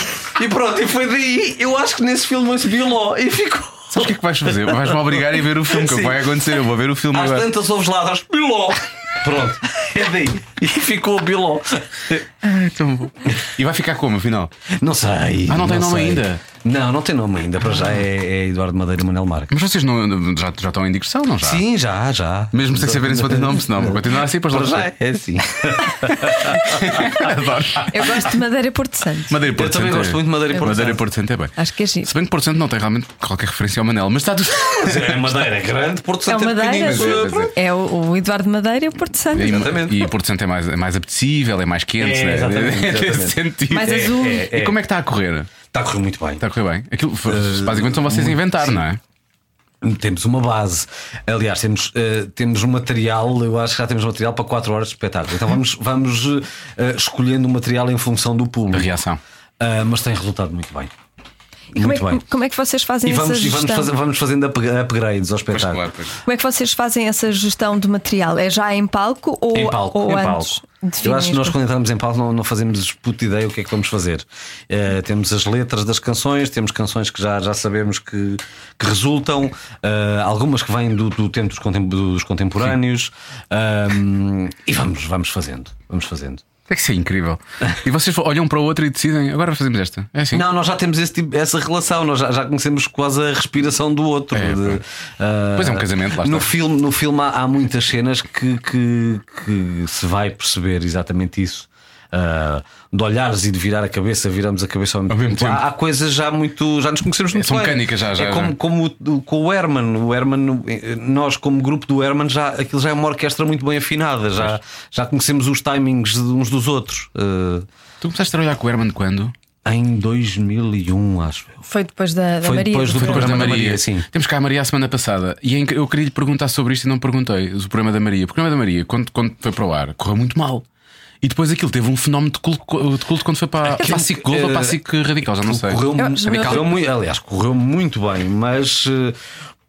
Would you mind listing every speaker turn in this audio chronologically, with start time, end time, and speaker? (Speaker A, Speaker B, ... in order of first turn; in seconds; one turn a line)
Speaker A: 0.3-5.1
Speaker B: 3.9-7.5
Speaker A: 5.7-6.3
Speaker A: 7.1-12.3
Speaker B: 12.4-14.5
Speaker A: 14.7-19.5
Speaker B: 15.5-16.4
Speaker B: 19.5-21.6
Speaker A: 21.4-27.3
Speaker B: 22.5-24.9
Speaker B: 26.1-28.3
Speaker C: 27.9-29.4
Speaker B: 29.3-35.4
Speaker A: 29.5-31.0
Speaker C: 31.6-32.1
Speaker A: 34.7-37.5
Speaker C: 36.3-39.7
Speaker B: 36.7-37.5
Speaker B: 39.3-45.5
Speaker A: 39.4-40.1
Speaker A: 42.0-44.8
Speaker C: 43.7-44.5
Speaker A: 45.7-46.4
Speaker B: 46.4-49.0
Speaker A: 47.3-48.8
Speaker A: 49.8-58.9
Speaker B: 58.7-59.2
Speaker A: 59.6-60.9
Speaker C: 61.7-63.9
Speaker A: 61.8-62.2
Speaker A: 63.0-65.9
Speaker B: 65.5-66.1
Speaker C: 66.2-71.6
Speaker A: 69.5-86.4
Speaker B: 86.7-90.5
Speaker A: 90.3-117.7
Speaker B: 94.3-94.8
Speaker B: 95.5-96.5
Speaker B: 105.1-105.6
Speaker B: 107.3-108.5
Speaker B: 118.0-119.3
Speaker A: 119.7-121.7
Speaker C: 121.7-123.6
Speaker A: 122.4-124.1
Speaker B: 123.0-130.7
Speaker B: 131.2-136.7
Speaker A: 133.7-134.8
Speaker A: 135.4-139.2
Speaker C: 136.0-136.8